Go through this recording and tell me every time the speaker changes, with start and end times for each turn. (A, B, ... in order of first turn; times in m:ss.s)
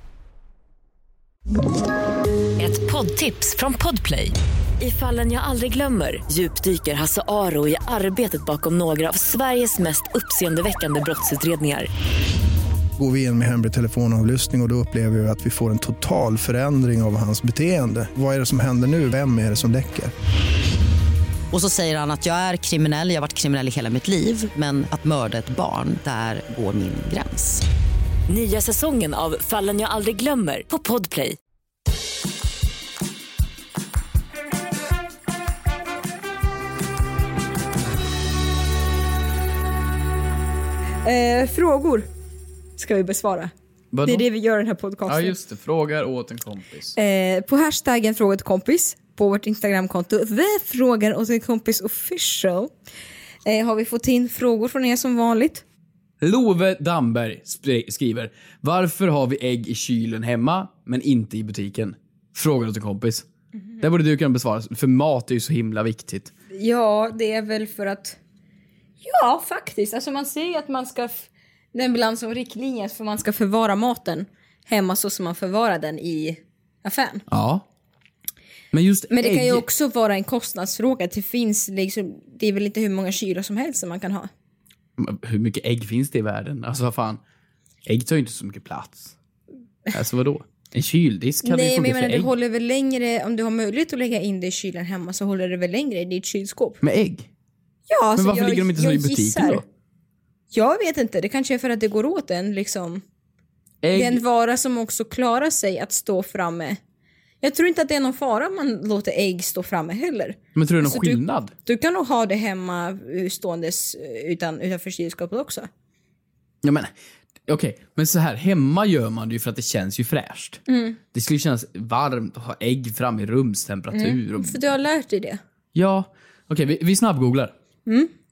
0:02.6-0:11.9 A
0:13.0-0:20.1 B
0:21.5-0:27.6 C
0:28.3-0:31.4 A
0:41.0-0:42.1 D
0:42.8-0:43.5 D
0:43.9-0:44.3 E
0:44.0-0:45.4 D
0:45.1-0:47.0 E
0:46.9-0:52.7 D
0:53.4-0:55.6 D
0:56.2-1:03.3 E
1:03.8-1:06.3 E
1:06.5-1:08.2 D
1:09.0-1:17.2 D
1:17.3-1:17.6 E
1:18.7-1:19.6 E
1:19.1-1:24.3 D
1:25.0-1:27.2 E
1:27.8-1:29.1 E
1:29.9-1:32.3 E
1:31.4-1:36.8 D
1:36.8-1:37.3 E
1:37.9-1:39.6 D
1:38.2-1:39.6 E
1:40.5-1:43.0 D
1:43.8-1:44.2 E
1:43.9-1:46.8 D
1:47.4-1:55.7 D
1:50.5-1:51.5 E
1:56.6-1:56.9 E
1:57.5-2:04.6 E
2:00.7-2:01.0 D
2:03.9-2:05.4 D
2:05.7-2:07.5 E
2:07.8-2:08.1 D